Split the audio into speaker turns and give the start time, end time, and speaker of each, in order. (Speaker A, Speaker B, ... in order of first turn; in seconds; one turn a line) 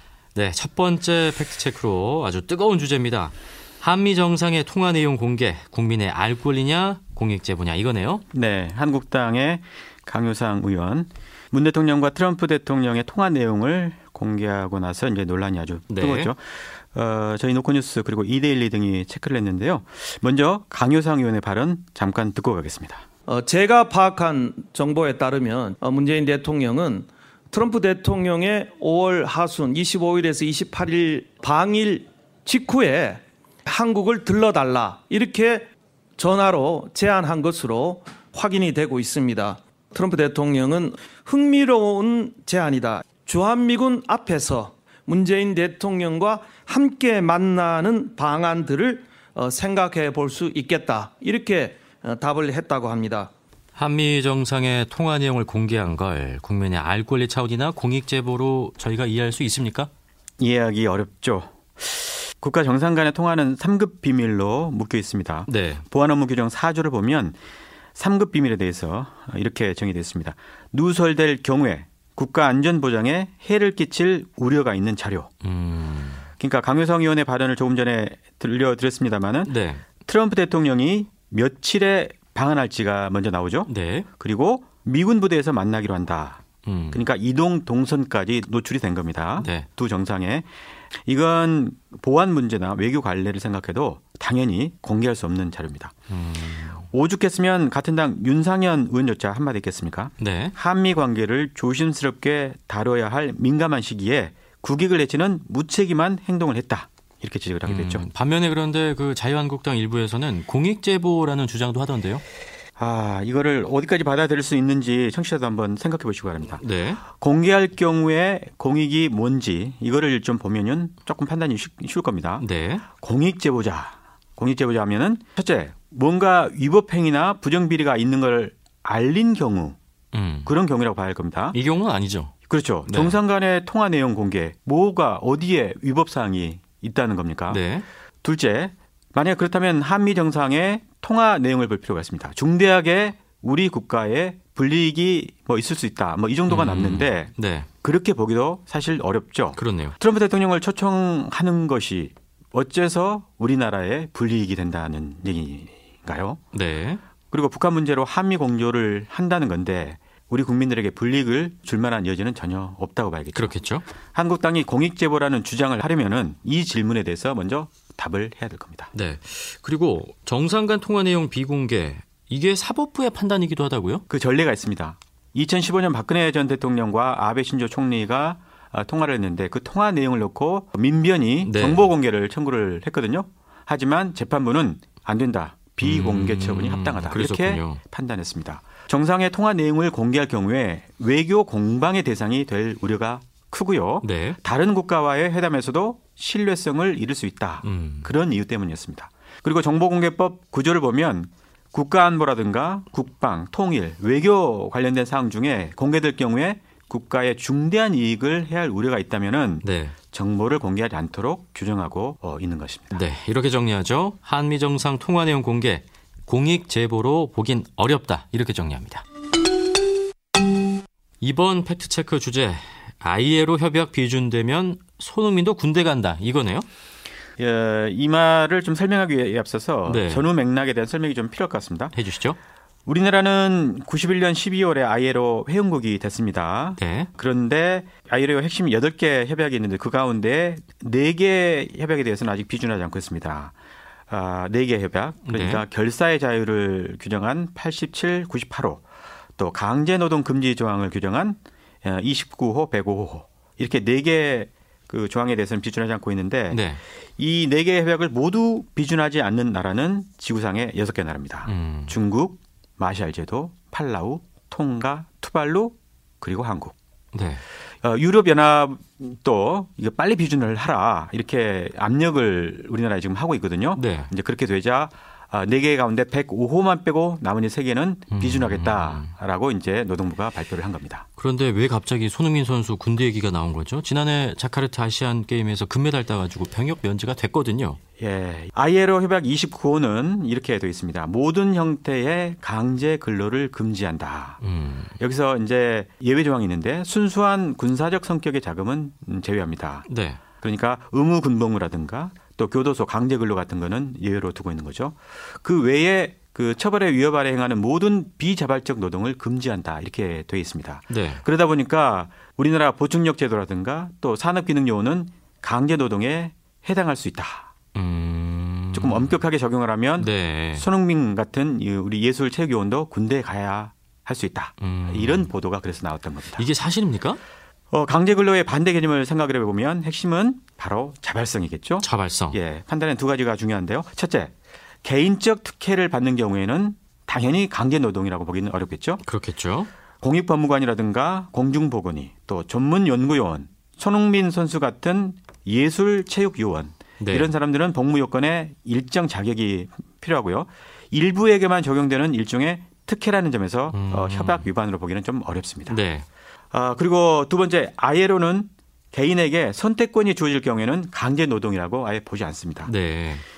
Speaker A: 0.3-8.2
Speaker B: 8.3-23.0
Speaker A: 15.9-16.3
Speaker C: 23.3-53.3
Speaker A: 53.8-59.9
Speaker B: 60.4-67.4
Speaker A: 65.5-65.8
Speaker B: 68.0-75.3
Speaker A: 75.4-76.2
Speaker B: 76.4-79.5
Speaker A: 79.5-79.8
Speaker B: 80.0-86.4
Speaker A: 83.7-84.1
Speaker A: 86.7-87.0
Speaker B: 86.9-96.0
Speaker A: 89.4-89.7
Speaker A: 96.1-96.8
Speaker B: 96.9-108.0
Speaker A: 100.2-100.5
Speaker A: 107.7-112.2
Speaker B: 112.8-129.8
Speaker A: 116.6-117.0
Speaker A: 122.4-122.8
Speaker A: 130.1-130.5
Speaker B: 130.5-131.6
Speaker A: 131.5-132.3
Speaker B: 132.5-137.6
Speaker A: 132.9-133.2
Speaker A: 137.5-137.8
Speaker B: 138.2-147.3
Speaker A: 146.5-147.7
Speaker B: 147.8-156.4
Speaker A: 149.6-150.0
Speaker A: 156.5-157.0
Speaker B: 157.3-163.6
Speaker A: 163.3-163.9
Speaker B: 164.1-168.9
Speaker A: 168.9-174.0
Speaker B: 174.1-213.0
Speaker A: 181.4-181.9
Speaker A: 185.8-187.8
Speaker A: 194.0-194.4
Speaker A: 197.6-198.1
Speaker A: 209.6-210.0
Speaker A: 212.9-219.0
Speaker A: 221.2-226.7
Speaker B: 227.4-231.9
Speaker A: 229.8-230.3
Speaker A: 231.9-232.4
Speaker B: 232.9-243.5
Speaker A: 236.8-237.1
Speaker B: 244.1-248.8
Speaker A: 245.3-245.7
Speaker B: 249.4-256.6
Speaker A: 256.5-256.8
Speaker B: 257.2-266.7
Speaker A: 261.4-262.0
Speaker A: 267.1-267.4
Speaker B: 267.8-281.1
Speaker A: 273.7-274.1
Speaker A: 278.1-279.1
Speaker A: 281.2-287.8
Speaker B: 288.0-294.4
Speaker A: 294.4-294.9
Speaker B: 295.0-299.9
Speaker A: 299.9-300.2
Speaker B: 300.4-317.5
Speaker A: 310.9-311.2
Speaker A: 317.8-319.2
Speaker B: 318.7-326.5
Speaker A: 320.0-320.7
Speaker A: 324.6-325.3
Speaker A: 326.4-327.2
Speaker B: 327.7-334.3
Speaker A: 331.8-332.4
Speaker B: 334.8-339.0
Speaker A: 339.0-339.7
Speaker B: 340.0-355.8
Speaker A: 347.0-347.3
Speaker A: 353.7-354.5
Speaker A: 355.7-356.1
Speaker B: 356.5-362.7
Speaker A: 362.6-363.2